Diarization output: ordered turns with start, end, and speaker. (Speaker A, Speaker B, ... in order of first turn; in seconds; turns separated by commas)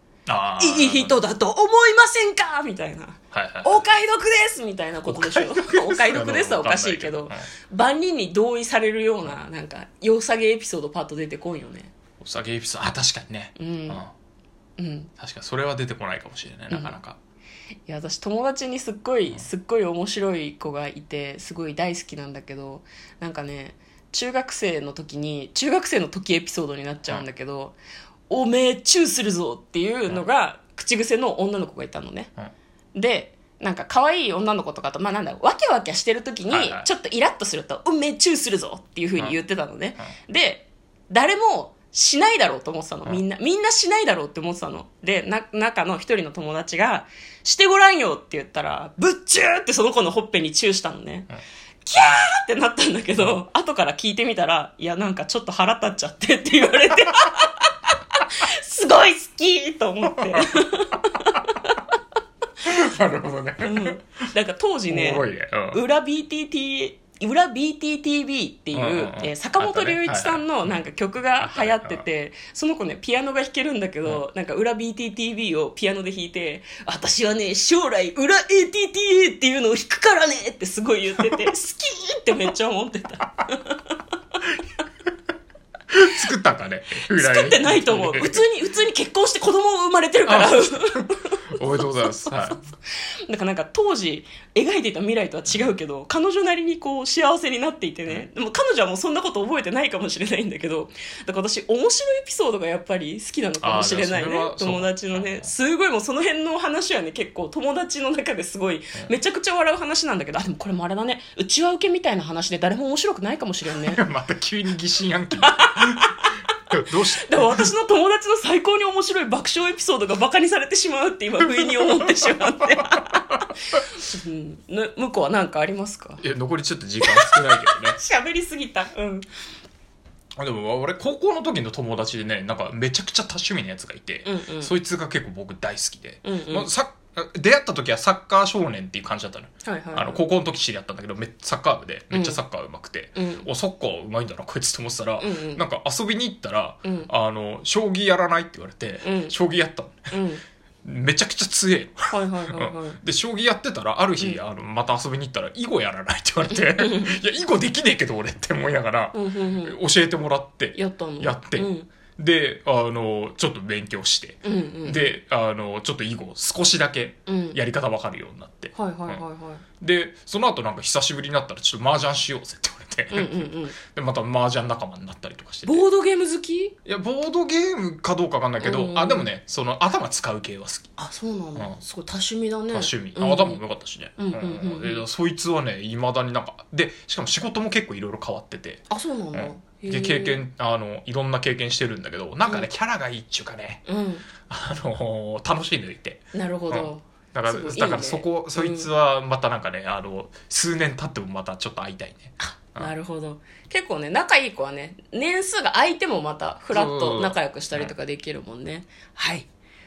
Speaker A: 0.3-1.2, Speaker B: 0.6-11.9, Speaker A: 3.3-3.9, Speaker A: 5.1-7.5, Speaker A: 12.2-14.1, Speaker B: 13.6-14.0, Speaker B: 14.8-15.1, Speaker A: 15.2-17.2, Speaker B: 16.7-16.9, Speaker B: 17.9-27.7, Speaker B: 28.3-32.3, Speaker B: 32.9-51.3, Speaker A: 36.5-36.9, Speaker B: 51.8-61.8, Speaker A: 62.6-64.0, Speaker B: 63.6-84.0, Speaker A: 64.9-65.8, Speaker A: 68.7-70.8, Speaker A: 71.4-72.0, Speaker A: 85.9-88.4, Speaker B: 87.1-91.4, Speaker A: 90.2-92.6, Speaker B: 92.3-114.0, Speaker A: 103.6-105.5, Speaker A: 113.7-116.1, Speaker B: 115.5-116.3, Speaker A: 116.7-117.7, Speaker B: 117.2-126.2, Speaker A: 121.6-123.4, Speaker A: 126.2-128.0, Speaker B: 127.0-129.3, Speaker A: 130.4-150.2, Speaker B: 134.2-134.7, Speaker B: 136.2-136.7, Speaker B: 139.6-140.2, Speaker B: 142.1-142.4, Speaker B: 143.2-143.5, Speaker B: 145.2-145.6, Speaker B: 146.8-147.1, Speaker B: 149.0-149.3, Speaker B: 150.1-150.4, Speaker A: 150.8-169.2, Speaker B: 152.1-153.0, Speaker B: 156.5-157.2, Speaker B: 159.1-159.8, Speaker B: 160.7-161.9, Speaker B: 164.4-165.1, Speaker B: 167.3-167.6, Speaker B: 168.7-169.6, Speaker A: 169.8-175.8, Speaker B: 173.1-173.8, Speaker B: 175.7-176.7, Speaker A: 176.8-180.9, Speaker B: 178.6-179.3, Speaker B: 181.0-183.6, Speaker A: 182.7-193.8, Speaker B: 184.2-185.0, Speaker B: 188.9-190.4, Speaker B: 193.8-194.2, Speaker A: 194.4-202.9, Speaker B: 196.3-198.9, Speaker B: 202.4-209.5, Speaker A: 206.7-207.9